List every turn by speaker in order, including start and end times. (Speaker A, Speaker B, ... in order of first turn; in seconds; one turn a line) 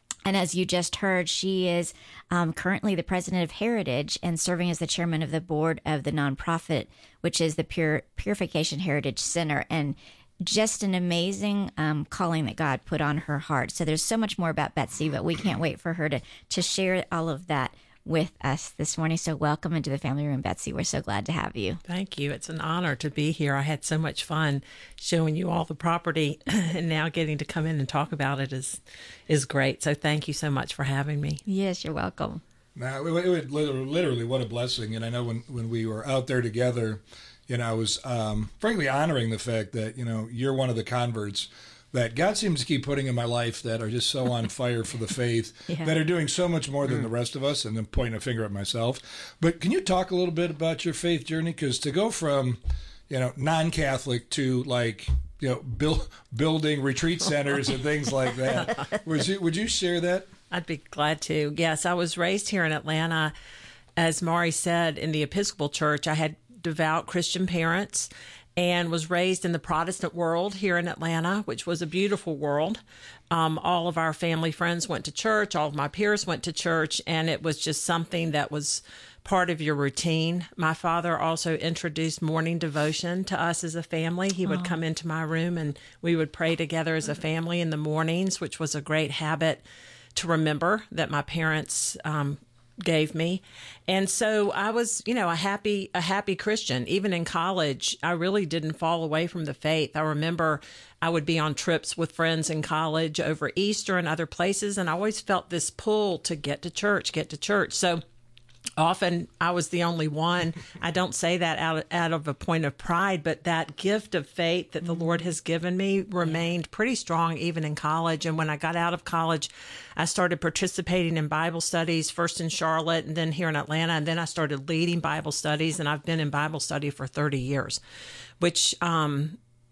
Speaker A: 0.2-21.8
Speaker B: 21.9-31.4
Speaker A: 31.4-32.4
Speaker C: 32.8-60.3
Speaker A: 45.7-45.9
Speaker B: 60.5-63.3
Speaker B: 64.0-89.6
Speaker A: 84.4-84.8
Speaker B: 90.2-108.0
Speaker B: 108.8-127.8
Speaker B: 128.4-129.4